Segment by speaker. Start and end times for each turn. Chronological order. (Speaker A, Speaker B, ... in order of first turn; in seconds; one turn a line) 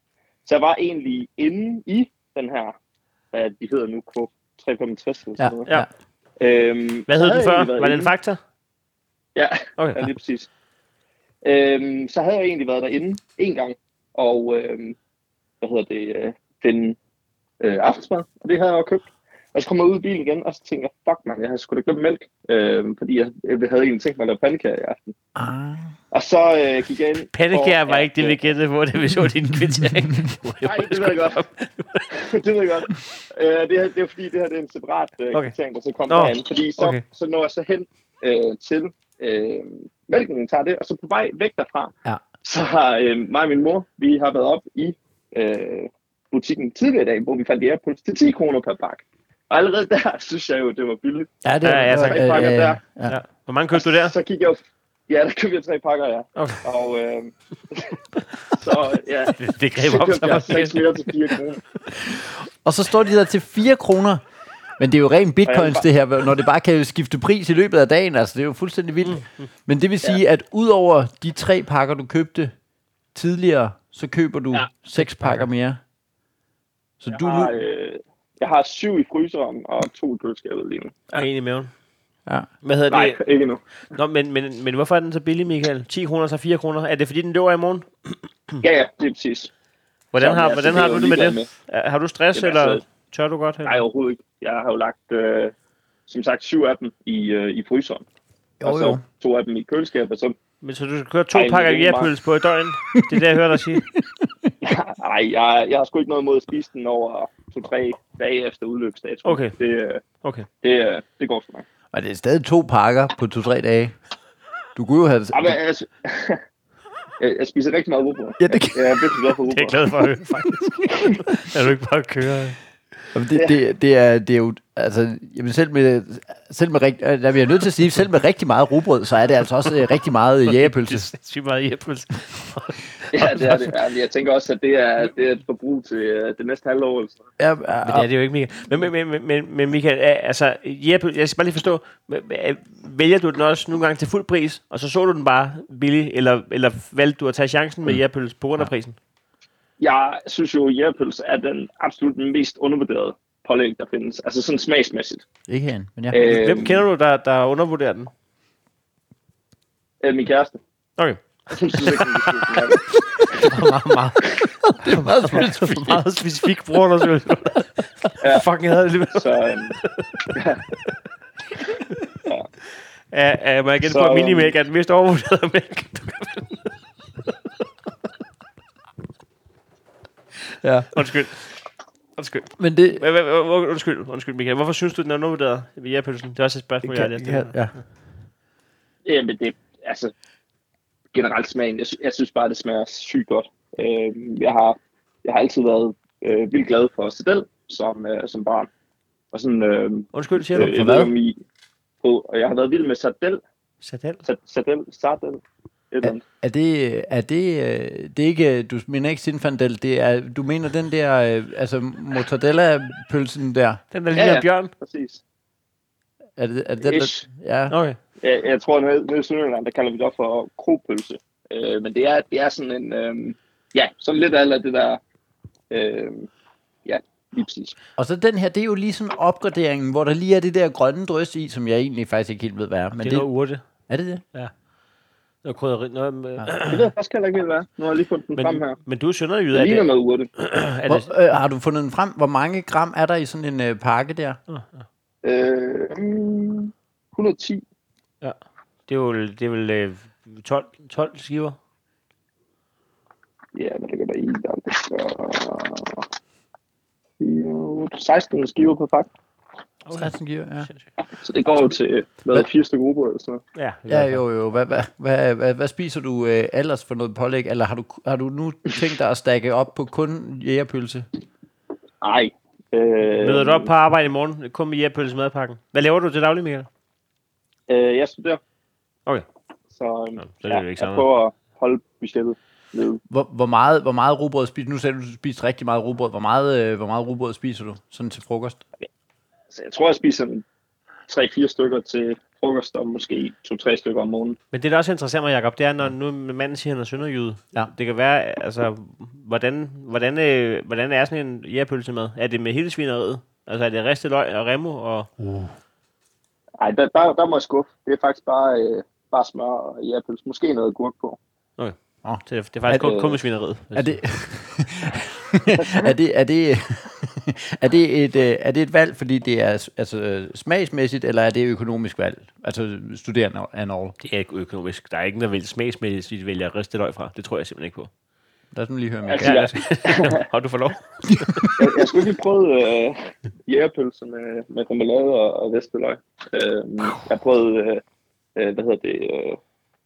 Speaker A: 0.5-2.8
Speaker A: 3.3-5.7
Speaker B: 5.4-5.9
Speaker A: 6.4-8.1
Speaker C: 7.1-8.4
Speaker A: 9.3-10.5
Speaker C: 9.8-10.1
Speaker A: 11.4-15.0
Speaker A: 15.6-17.0
Speaker A: 17.6-25.1
Speaker B: 25.4-25.9
Speaker A: 26.1-28.5
Speaker C: 27.3-32.1
Speaker B: 29.8-30.1
Speaker A: 30.6-31.4
Speaker A: 32.1-41.9
Speaker C: 36.1-37.0
Speaker A: 42.4-52.8
Speaker B: 51.4-53.2
Speaker C: 51.6-52.3
Speaker C: 53.1-54.1
Speaker A: 53.7-58.0
Speaker C: 56.4-56.6
Speaker A: 58.5-61.6
Speaker C: 59.4-60.8
Speaker B: 61.9-64.2
Speaker B: 64.8-72.5
Speaker A: 65.5-65.8
Speaker C: 69.0-69.5
Speaker B: 73.1-75.8
Speaker C: 75.0-75.5
Speaker B: 77.0-77.5
Speaker A: 77.1-81.2
Speaker C: 81.1-81.7
Speaker C: 82.6-83.2
Speaker A: 82.9-83.6
Speaker C: 83.9-88.6
Speaker A: 88.6-89.5
Speaker C: 90.1-93.8
Speaker A: 90.2-91.5
Speaker A: 92.4-92.8
Speaker A: 93.7-95.5
Speaker A: 96.1-98.0
Speaker B: 98.6-99.0
Speaker A: 98.6-100.3
Speaker C: 100.6-103.8
Speaker A: 101.3-102.1
Speaker B: 103.0-103.2
Speaker B: 103.8-104.5
Speaker A: 104.6-110.0
Speaker C: 109.2-109.5
Speaker C: 110.2-110.5
Speaker A: 110.6-111.7
Speaker B: 111.9-114.0
Speaker B: 114.8-115.6
Speaker A: 115.3-116.4
Speaker A: 117.2-119.8
Speaker B: 118.4-119.2
Speaker C: 119.5-122.6
Speaker B: 123.1-131.1
Speaker C: 130.5-133.7
Speaker A: 133.1-137.2
Speaker B: 137.4-138.1
Speaker C: 137.8-149.0
Speaker A: 149.8-155.2
Speaker B: 155.5-156.2
Speaker A: 156.1-156.8
Speaker C: 156.2-158.1
Speaker A: 160.0-160.6
Speaker C: 161.0-162.7
Speaker A: 161.5-163.5
Speaker C: 163.2-170.3
Speaker B: 163.5-166.0
Speaker A: 168.2-168.5
Speaker A: 169.1-169.8
Speaker A: 170.3-170.6
Speaker C: 173.1-176.7
Speaker A: 173.8-174.5
Speaker B: 180.6-181.1
Speaker C: 180.9-181.6
Speaker C: 182.2-187.6
Speaker B: 182.6-183.0
Speaker B: 186.8-187.8
Speaker A: 189.1-190.1
Speaker A: 191.1-198.7
Speaker A: 199.3-201.4
Speaker C: 200.1-200.7
Speaker B: 200.6-201.1
Speaker A: 202.0-203.4
Speaker C: 203.8-204.2
Speaker A: 204.2-206.2
Speaker B: 206.0-213.8
Speaker C: 213.9-214.7
Speaker A: 214.1-215.2
Speaker B: 216.4-217.8
Speaker A: 216.8-217.2
Speaker C: 217.7-218.0
Speaker A: 218.2-225.0
Speaker A: 225.7-226.3
Speaker A: 226.8-227.8
Speaker B: 228.0-233.3
Speaker C: 233.0-233.6
Speaker B: 233.9-234.2
Speaker C: 235.4-236.9
Speaker A: 236.7-238.8
Speaker C: 238.4-241.1
Speaker A: 239.5-240.3
Speaker B: 240.9-244.4
Speaker C: 244.5-244.9
Speaker A: 245.2-247.6
Speaker C: 248.2-251.6
Speaker A: 253.6-256.1
Speaker A: 257.2-259.1
Speaker C: 259.9-260.1
Speaker B: 259.9-260.7
Speaker A: 261.1-263.4
Speaker C: 263.6-264.2
Speaker B: 263.9-271.1
Speaker A: 272.0-273.7
Speaker C: 273.2-276.7
Speaker A: 277.7-278.4
Speaker A: 279.8-283.0
Speaker C: 280.2-281.1
Speaker B: 283.1-288.6
Speaker A: 289.5-290.4
Speaker A: 291.1-294.4
Speaker C: 294.5-305.1
Speaker B: 305.2-305.5
Speaker A: 306.6-311.2
Speaker C: 311.6-314.0
Speaker B: 312.0-312.9
Speaker A: 312.8-313.2
Speaker B: 313.7-324.0
Speaker C: 324.0-327.9
Speaker B: 328.5-329.6
Speaker A: 329.1-330.2
Speaker C: 329.2-331.5
Speaker B: 331.1-331.8
Speaker A: 331.6-337.8
Speaker A: 338.4-339.4